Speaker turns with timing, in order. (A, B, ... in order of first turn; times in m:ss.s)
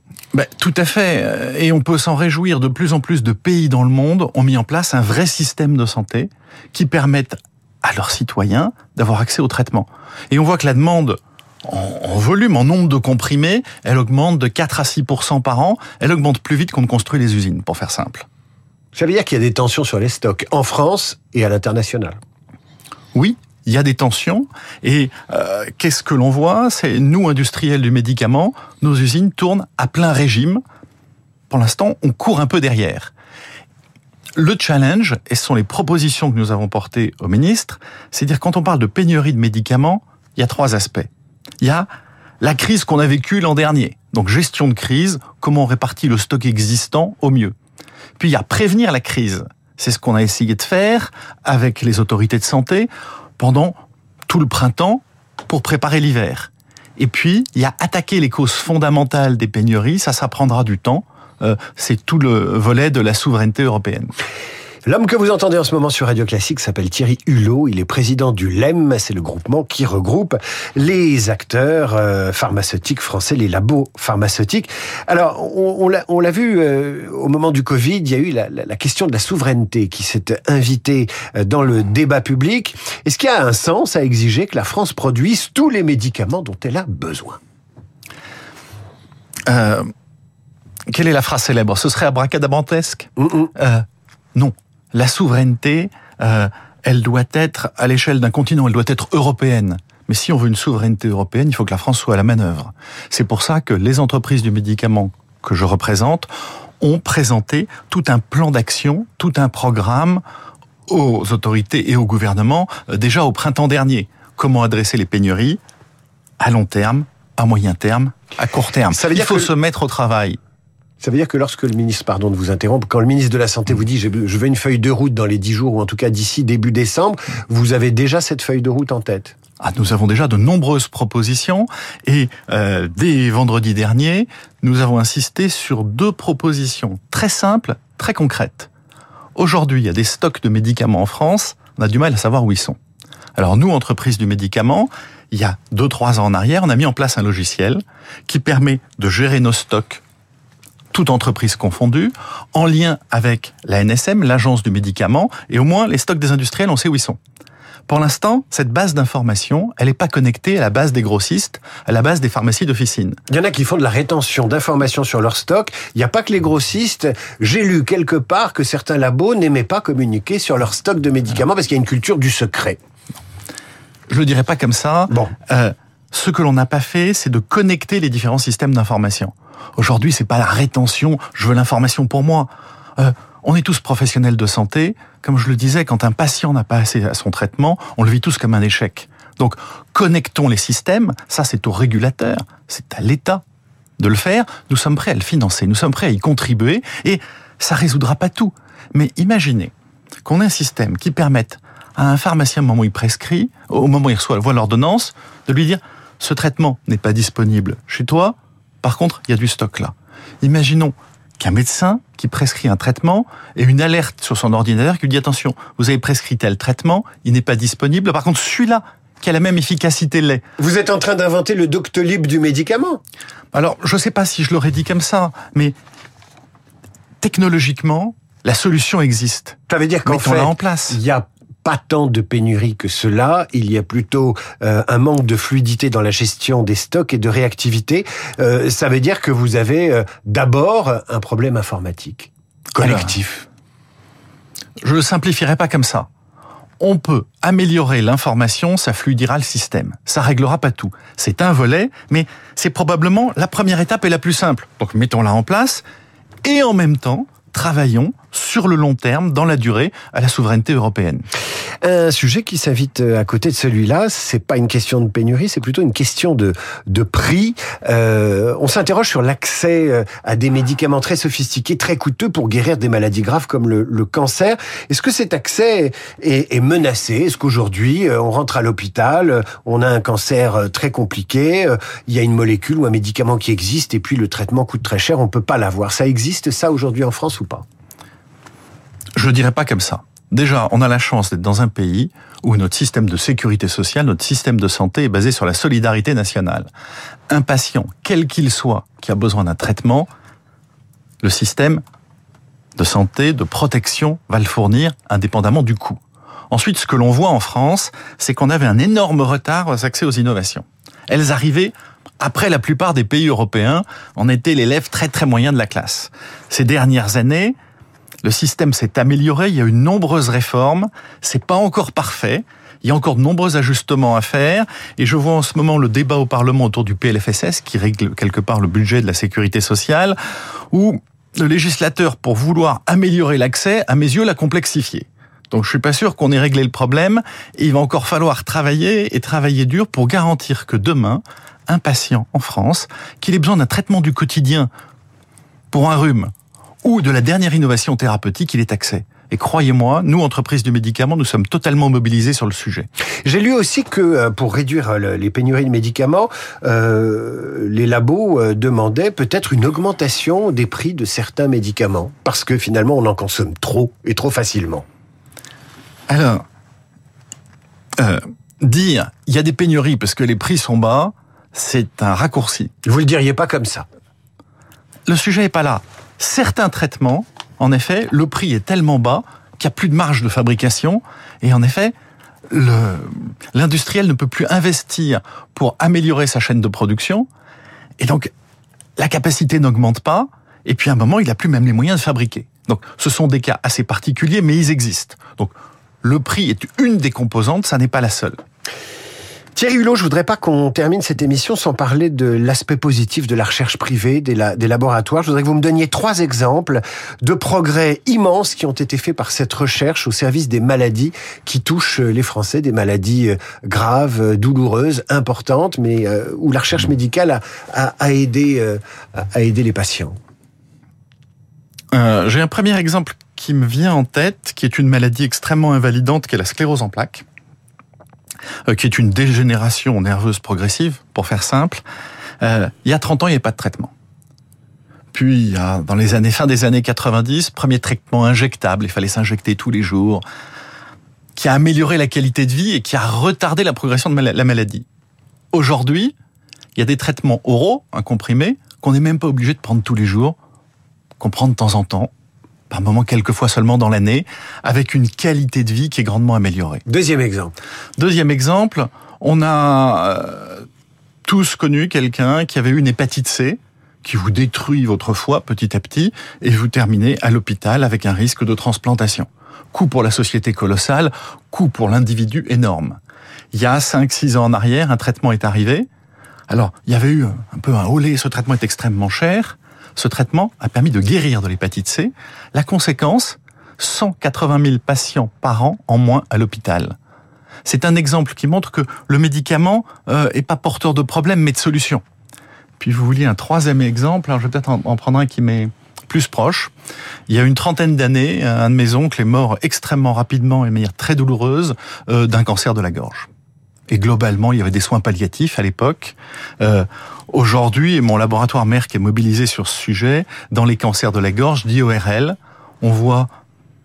0:00.3-0:18.2 A
0:19.0-0:22.2 B
0:23.1-0:30.6 A
0:31.5-0:33.1 A
0:34.4-0:41.1 A
0:41.6-0:41.9 A
0:42.4-0:47.6 A
0:48.2-0:53.8 A
0:54.3-1:04.1 A
1:04.9-1:27.4 B
1:29.5-1:29.9 A
1:30.9-1:46.3 A
1:46.8-1:50.2 A
1:50.9-1:55.6 A
1:56.4-2:00.4 A
1:58.9-1:59.5 B
2:01.0-2:09.3 B
2:09.6-2:18.7 A
2:19.4-2:22.8 A
2:23.4-2:30.0 A
2:30.9-2:37.2 A
2:37.9-2:43.2 A
2:43.3-2:52.8 B
2:54.1-3:13.4 A
3:14.0-3:19.7 A
3:20.2-3:40.4 A
3:40.6-3:43.0 B
3:43.5-3:45.8 A
3:47.2-3:51.0 A
3:49.7-4:03.5 B
4:02.8-4:03.2 A
4:04.8-4:06.1 A
4:06.8-4:15.8 A
4:16.4-4:21.2 A
4:21.8-4:47.6 B
4:49.2-4:56.7 A
4:57.3-5:00.1 A
5:01.2-5:01.8 A
5:02.8-5:06.0 A
5:06.5-5:17.6 A
5:18.2-5:30.2 A
5:30.7-5:44.7 A
5:45.7-5:46.3 A
5:46.8-5:52.9 A
5:53.2-6:04.8 B
6:06.1-6:06.4 A
6:08.0-6:12.7 A
6:12.8-6:13.8 B
6:15.1-6:21.9 A
6:22.5-6:27.3 A
6:28.0-6:28.3 A
6:29.0-6:35.5 A
6:36.0-6:38.4 A
6:39.6-7:00.2 B
7:01.9-7:07.2 A
7:08.7-7:11.8 A
7:12.4-7:13.9 A
7:15.1-7:20.2 A
7:21.4-7:24.8 A
7:25.5-7:26.1 A
7:26.8-7:30.4 A
7:31.2-7:32.1 A
7:32.7-7:36.8 A
7:36.9-7:37.6 B
7:38.0-7:40.7 A
7:41.3-7:53.0 A
7:53.5-7:55.9 A
7:56.5-8:07.0 A
8:07.6-8:12.0 A
8:12.8-8:16.7 A
8:17.3-8:23.3 A
8:23.9-8:33.3 A